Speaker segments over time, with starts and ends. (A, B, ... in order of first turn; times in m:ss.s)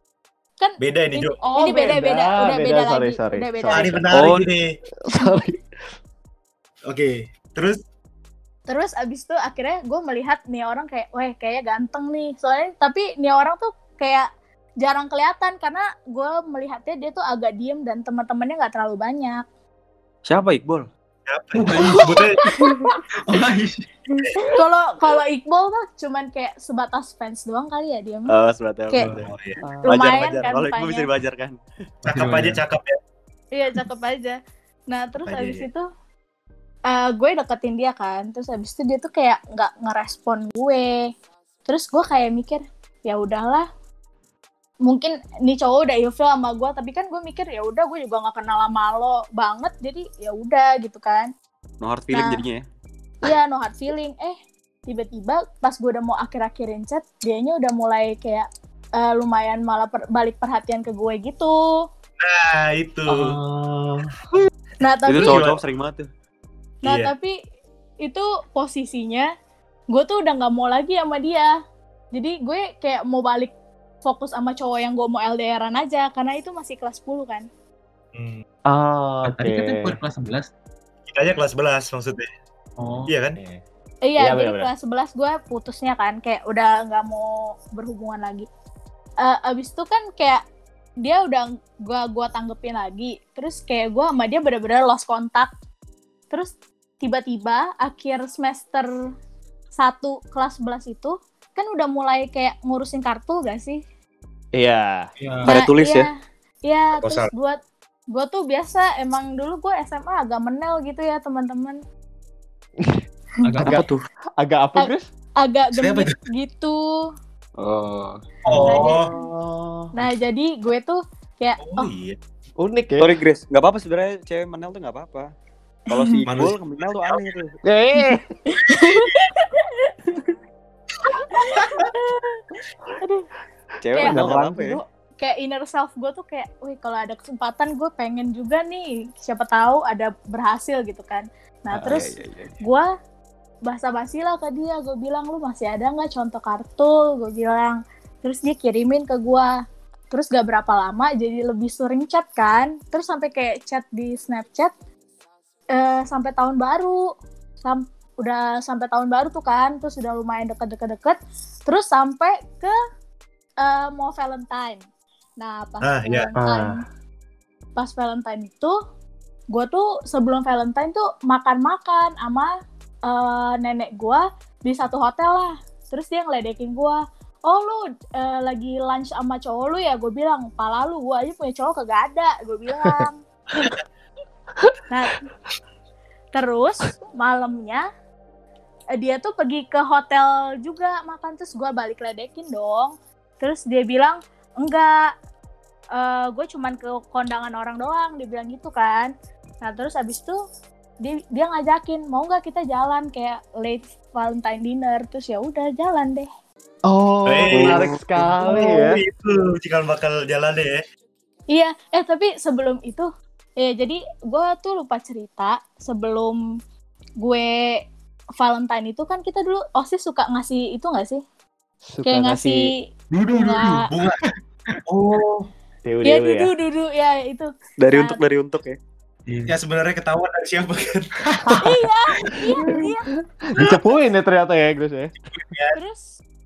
0:00.6-0:04.0 A
0:00.8-0:01.4 B
0:01.4-0:04.1 C
0:03.7-0:04.8 B
0:04.1-0:04.5 D
0:05.0-0:05.6 C
0:06.9-0:07.8 B
0:08.7-0:14.3 A
0:14.8-0:19.4 A
0:20.3-0:20.9 D
0:21.3-0:22.5 B
0:21.5-0:22.3 E
0:21.9-0:22.9 A
0:23.2-0:23.9 E
0:24.2-0:28.3 A
0:24.2-0:24.5 B
0:28.3-0:29.3 D
0:29.0-0:29.3 E
0:29.3-0:29.6 B
0:29.6-0:30.0 C
0:29.8-0:31.6 D
0:29.9-0:31.1 A
0:32.0-0:32.6 E
0:32.1-0:33.0 B
0:33.5-0:34.4 A
0:34.9-0:35.9 A
0:35.2-0:35.7 B
0:36.9-0:41.1 A
0:41.7-0:43.7 A
0:44.9-0:51.3 A
0:51.8-0:52.6 D
0:52.1-0:52.4 A
0:53.2-0:54.4 A
0:54.9-1:01.6 A
1:02.2-1:03.2 B
1:03.1-1:04.1 C
1:04.8-1:05.4 A
1:05.1-1:06.1 D
1:05.2-1:05.6 B
1:06.8-1:07.4 A
1:06.8-1:07.1 B
1:08.0-1:09.3 A
1:09.9-1:11.5 A
1:12.1-1:17.5 A
1:18.1-1:18.4 B
1:18.7-1:20.0 C
1:19.2-1:20.5 E
1:21.1-1:22.3 B
1:22.8-1:23.1 E
1:23.1-1:23.4 B
1:24.1-1:28.5 A
1:24.2-1:24.7 C
1:29.2-1:30.4 A
1:31.0-1:35.5 A
1:36.3-1:38.9 A
1:39.8-1:43.8 A
1:44.6-1:45.1 C
1:45.2-1:45.5 E
1:45.5-1:46.1 D
1:45.5-1:46.1 A
1:46.7-1:47.6 A
1:47.0-1:47.3 B
1:48.1-1:51.8 A
1:53.4-1:53.8 E
1:53.7-1:54.0 D
1:54.4-1:55.1 C
1:55.4-1:56.8 A
1:55.8-1:56.2 B
1:57.6-1:58.2 D
1:58.5-1:59.1 B
1:58.5-1:59.9 C
1:58.6-1:59.1 A
2:00.0-2:01.9 A
2:01.6-2:02.2 B
2:02.6-2:03.2 C
2:03.0-2:05.3 D
2:05.9-2:07.5 D
2:06.3-2:07.4 B
2:07.6-2:08.3 C
2:08.5-2:09.9 A
2:08.6-2:09.2 B
2:11.3-2:12.3 A
2:11.5-2:11.9 B
2:13.0-2:13.3 A
2:13.8-2:14.8 D
2:13.9-2:14.8 C
2:14.0-2:14.2 A
2:15.2-2:22.9 A
2:21.7-2:22.6 D
2:23.7-2:29.5 A
2:30.1-2:34.7 A
2:35.7-2:37.0 A
2:37.6-2:42.7 A
2:43.6-2:44.8 A
2:45.4-2:46.8 A
2:45.8-2:46.3 B
2:46.4-2:46.8 C
2:47.8-2:48.8 A
2:49.5-2:52.5 A
2:53.1-3:03.2 A
3:04.9-3:05.2 A
3:06.3-3:07.9 A
3:09.0-3:15.1 A
3:16.0-3:19.1 A
3:19.6-3:20.4 A
3:21.0-3:26.3 A
3:26.9-3:29.0 C
3:27.3-3:30.8 B
3:27.5-3:27.8 D
3:31.5-3:33.1 A
3:33.6-3:36.4 A
3:37.2-3:37.8 A
3:38.4-3:41.2 A
3:41.9-3:42.7 C
3:42.0-3:42.7 A
3:43.1-3:44.8 E
3:43.3-3:43.9 A
3:43.9-3:44.2 B
3:44.9-3:45.5 B
3:45.8-3:46.5 C
3:46.0-3:48.2 A
3:47.8-3:48.8 D
3:49.3-3:49.6 E
3:49.5-3:51.7 B
3:51.6-3:53.1 A
3:52.3-3:52.6 E
3:52.7-3:55.1 C
3:55.4-3:55.8 B
3:55.8-3:56.0 A